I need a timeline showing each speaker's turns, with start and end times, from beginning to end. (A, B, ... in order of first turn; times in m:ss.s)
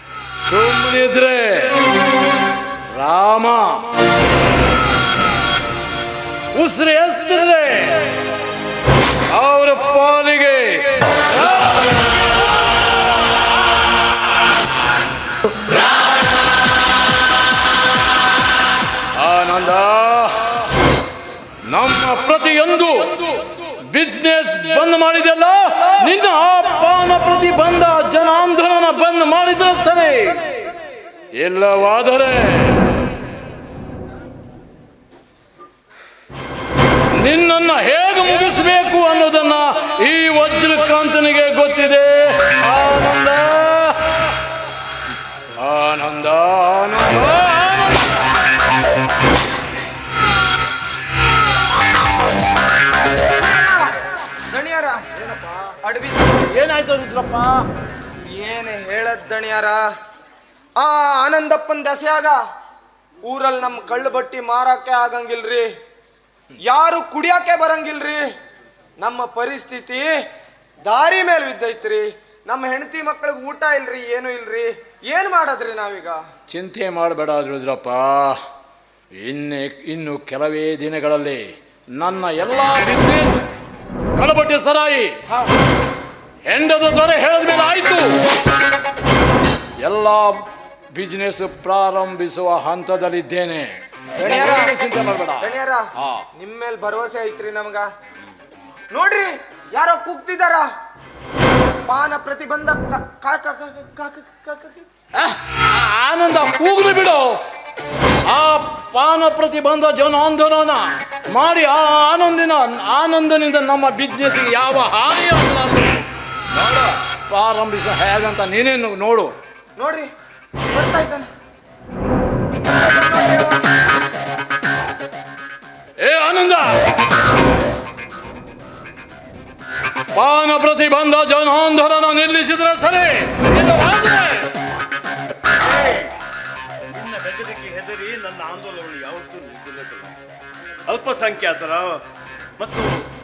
0:00.4-0:01.8 A
0:02.9-0:03.9 A
0:06.5-0:08.1 A
0:09.3-0:11.9 A
0:19.2-0:20.6 A
0:21.6-0:30.7 A
0:31.3-0:33.0 A
0:37.1-0:44.2 A
0:45.6-0:48.3 A
0:53.3-0:54.0 B
0:54.5-0:55.3 B
0:55.8-0:56.5 B
0:56.5-0:57.7 A
0:58.2-0:59.8 B
1:00.8-1:02.4 B
1:03.2-1:05.7 B
1:06.7-1:08.3 B
1:09.0-1:10.2 B
1:10.9-1:16.2 B
1:16.5-1:18.4 A
1:19.2-1:23.5 A
1:24.2-1:25.2 A
1:26.4-1:28.2 A
1:29.8-1:35.5 A
1:34.2-1:34.8 B
1:35.4-1:35.8 B
1:36.0-1:36.3 A
1:36.4-1:37.9 B
1:38.9-1:40.7 B
1:41.9-1:44.8 B
1:45.2-1:47.4 A
1:48.3-1:59.3 A
1:59.8-2:00.1 B
2:00.7-2:01.3 B
2:02.6-2:03.7 B
2:06.0-2:06.9 A
2:10.1-2:14.5 A
2:15.7-2:16.1 C
2:16.9-2:20.2 C
2:20.9-2:22.0 C
2:22.6-2:23.1 C